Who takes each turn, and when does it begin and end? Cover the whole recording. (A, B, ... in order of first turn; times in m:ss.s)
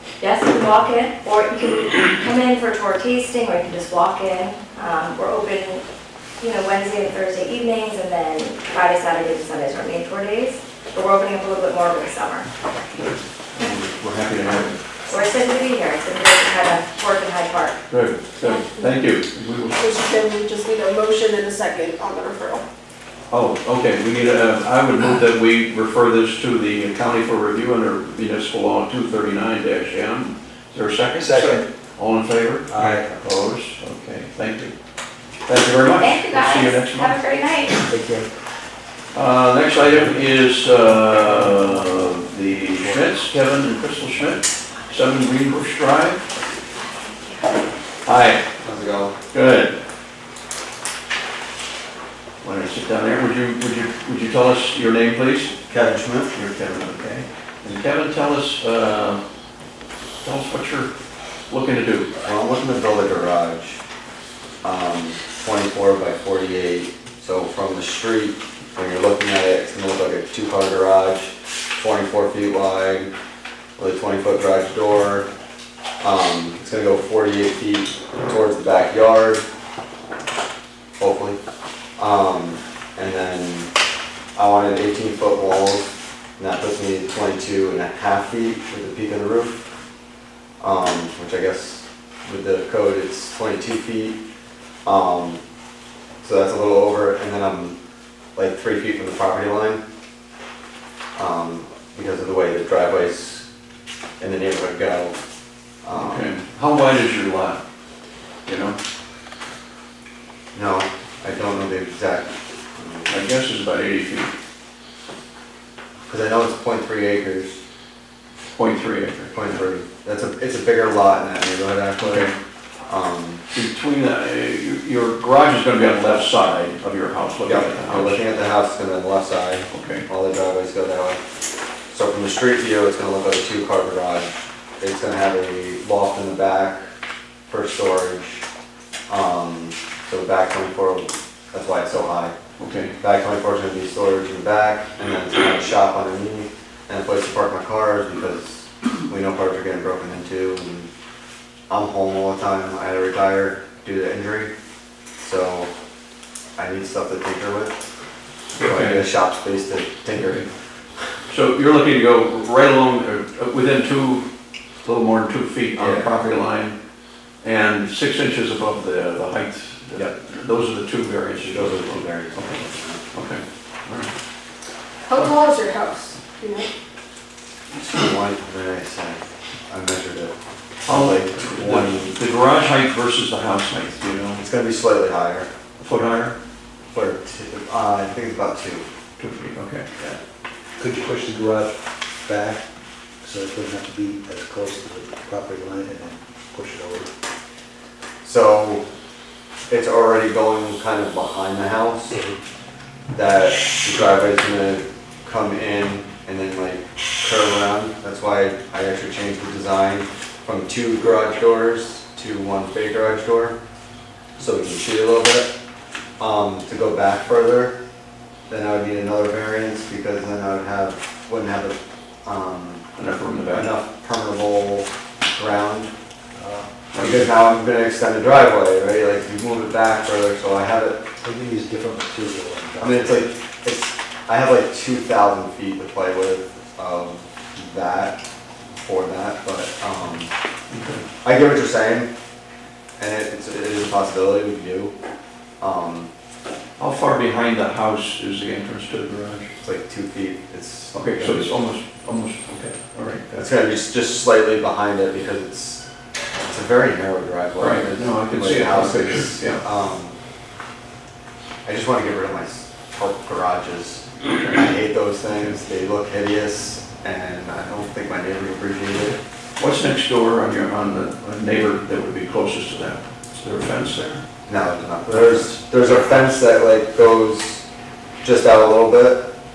0:00.2-0:05.8 A
0:06.4-0:12.5 A
0:12.9-0:14.8 B
0:15.1-0:17.8 A
0:17.9-0:19.8 B
0:18.4-0:18.9 C
0:19.7-0:22.6 C
0:23.3-0:34.7 B
0:31.1-0:31.6 D
0:32.7-0:33.2 D
0:35.4-0:37.2 B
0:35.9-0:37.8 A
0:37.8-0:38.3 D
0:39.1-0:46.3 B
0:41.3-0:42.0 D
0:42.7-0:43.1 D
0:46.9-0:47.4 A
0:48.0-0:48.4 B
0:48.6-0:49.1 E
0:49.3-0:49.8 B
0:52.4-0:55.5 B
0:55.7-0:57.2 E
0:56.4-0:59.2 B
1:00.2-1:00.9 B
1:01.5-1:02.1 B
1:02.2-1:03.8 E
1:04.6-1:13.1 E
1:13.8-1:15.3 E
1:16.0-1:19.4 E
1:21.0-1:21.4 E
1:22.0-1:23.7 E
1:24.3-1:29.7 E
1:30.6-1:34.2 E
1:34.8-1:35.4 E
1:36.2-1:37.8 E
1:38.4-1:39.8 E
1:41.1-1:43.4 E
1:44.2-1:45.2 E
1:45.8-1:46.3 E
1:45.9-1:47.6 B
1:48.4-1:48.8 B
1:50.5-1:53.2 E
1:53.1-1:54.3 B
1:56.1-1:57.6 E
1:58.5-1:59.6 B
1:59.3-2:02.3 E
2:02.0-2:02.3 B
2:02.9-2:03.4 E
2:03.5-2:08.2 B
2:07.4-2:11.2 E
2:09.7-2:10.0 B
2:11.9-2:16.9 E
2:17.5-2:18.4 E
2:19.1-2:22.3 E
2:22.6-2:22.9 B
2:23.0-2:30.9 E
2:31.7-2:34.5 E
2:35.2-2:35.7 E
2:36.6-2:37.9 E
2:38.5-2:39.1 B
2:38.6-2:40.5 E
2:40.2-2:40.5 B
2:41.3-2:44.2 B
2:44.8-2:46.8 B
2:45.7-2:46.2 E
2:47.4-2:52.6 B
2:51.4-2:53.0 E
2:53.1-2:54.1 B
2:55.0-2:56.7 C
2:57.7-3:00.3 E
3:00.8-3:02.2 E
3:00.8-3:04.4 B
3:04.4-3:05.5 E
3:05.8-3:06.3 B
3:06.9-3:08.8 E
3:09.2-3:10.0 B
3:10.8-3:12.6 D
3:13.2-3:17.1 D
3:18.2-3:18.8 E
3:19.7-3:22.2 E
3:23.1-3:33.6 E
3:34.4-3:35.5 E
3:36.2-3:37.7 E
3:38.5-3:42.8 E
3:43.0-3:43.7 B
3:43.5-3:45.9 E
3:46.3-3:46.7 D
3:46.9-3:47.3 B
3:47.0-3:51.0 E
3:51.2-3:53.2 D
3:52.8-3:58.2 E
3:58.8-4:00.3 E
4:00.7-4:01.0 B
4:01.2-4:02.1 E
4:03.0-4:04.9 E
4:05.6-4:06.1 E
4:06.8-4:09.5 B
4:09.6-4:11.5 E
4:10.9-4:13.2 B
4:13.3-4:15.8 E
4:16.4-4:20.2 E
4:17.6-4:19.6 B
4:21.6-4:29.2 E
4:24.2-4:24.6 B
4:29.6-4:34.2 B
4:34.5-4:37.6 E
4:35.1-4:35.4 B
4:38.2-4:39.3 E